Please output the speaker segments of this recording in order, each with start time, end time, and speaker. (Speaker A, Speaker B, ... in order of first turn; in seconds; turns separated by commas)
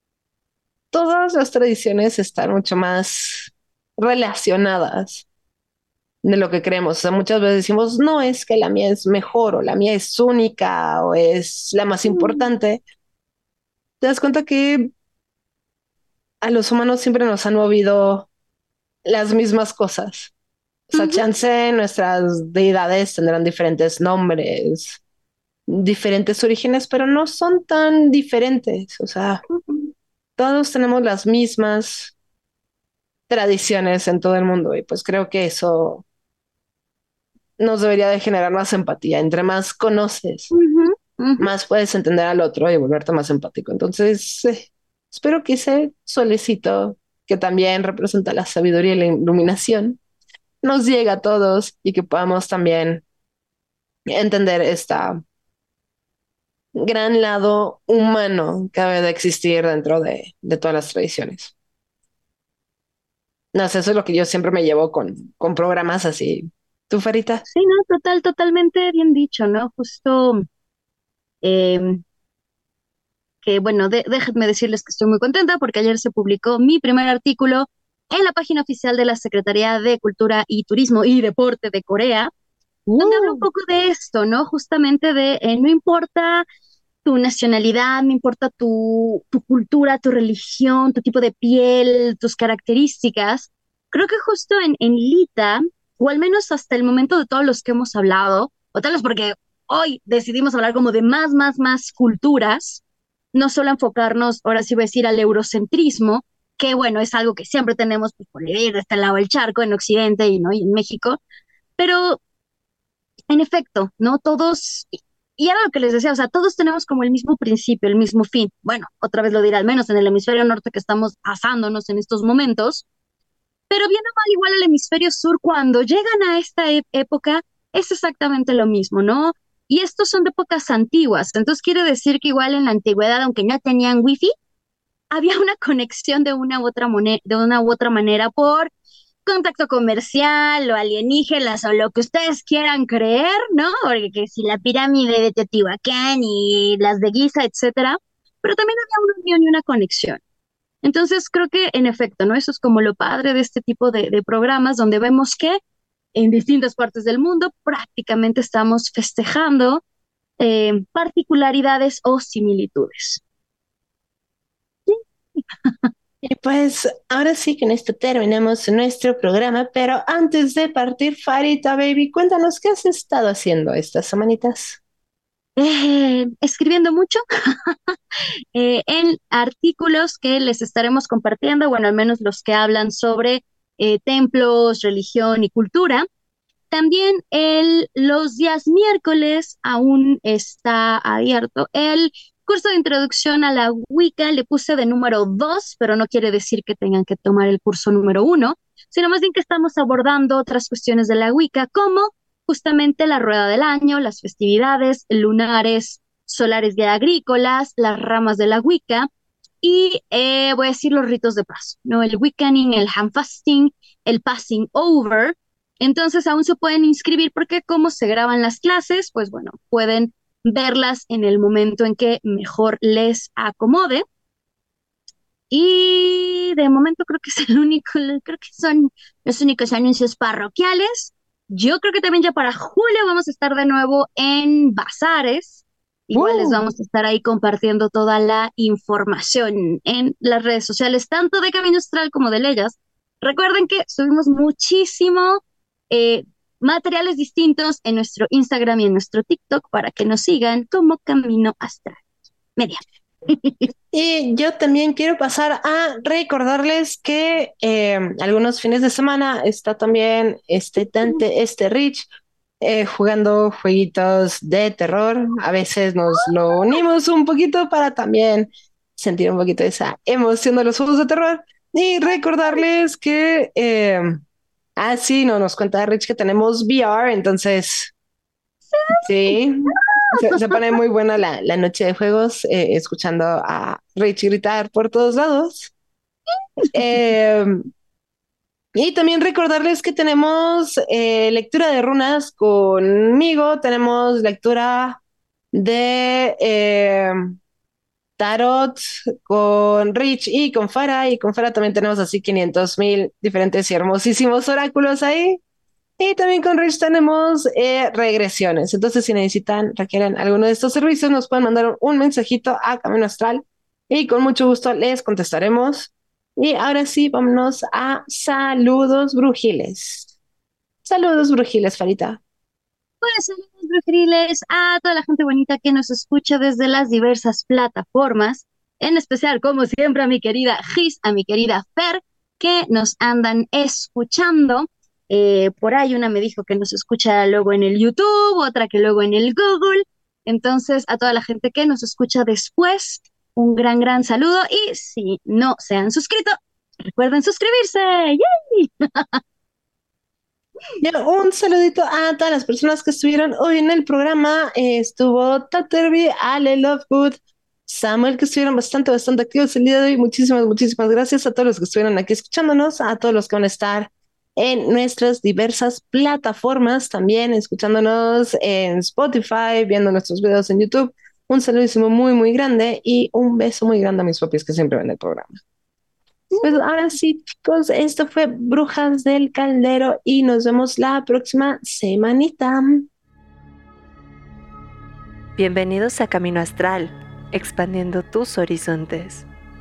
Speaker A: 0.9-5.3, Speaker A: 6.2-12.8, Speaker B: 12.1-12.4, Speaker A: 14.0-14.9, Speaker A: 16.4-18.3, Speaker A: 19.1-20.3, Speaker A: 20.9-25.0, Speaker B: 20.9-21.2, Speaker A: 25.7-29.4, Speaker A: 30.4-32.2, Speaker A: 33.3-36.0, Speaker A: 37.6-40.5, Speaker B: 40.5-41.5, Speaker A: 41.4-50.0, Speaker A: 50.6-53.0, Speaker A: 54.1-55.2, Speaker A: 56.8-61.5, Speaker A: 63.5-67.4, Speaker B: 67.5-70.5, Speaker B: 71.4-72.0, Speaker B: 73.4-82.3, Speaker A: 82.9-83.5, Speaker B: 83.0-86.5, Speaker B: 87.0-102.8, Speaker B: 103.3-111.2, Speaker B: 111.8-112.2, Speaker B: 113.3-122.8, Speaker B: 123.7-134.3, Speaker B: 135.1-138.7, Speaker B: 139.3-150.2, Speaker B: 150.8-155.6, Speaker B: 156.2-159.8, Speaker B: 160.4-163.2, Speaker A: 166.2-174.8, Speaker B: 175.6-177.9, Speaker B: 178.6-186.1, Speaker B: 186.7-209.1, Speaker B: 209.6-224.0, Speaker B: 225.5-252.1, Speaker A: 236.1-236.6, Speaker B: 252.6-253.7, Speaker A: 253.9-262.1, Speaker A: 262.6-274.2, Speaker A: 274.8-277.9, Speaker B: 278.7-280.6, Speaker A: 279.0-285.7, Speaker A: 286.7-287.6, Speaker A: 288.8-295.0, Speaker A: 295.5-297.3, Speaker A: 298.2-305.4, Speaker A: 306.0-320.1, Speaker A: 320.9-322.2, Speaker B: 323.0-346.4, Speaker B: 346.9-349.2, Speaker A: 350.8-375.4, Speaker B: 376.3-376.6, Speaker A: 376.4-382.9, Speaker C: 385.4-389.3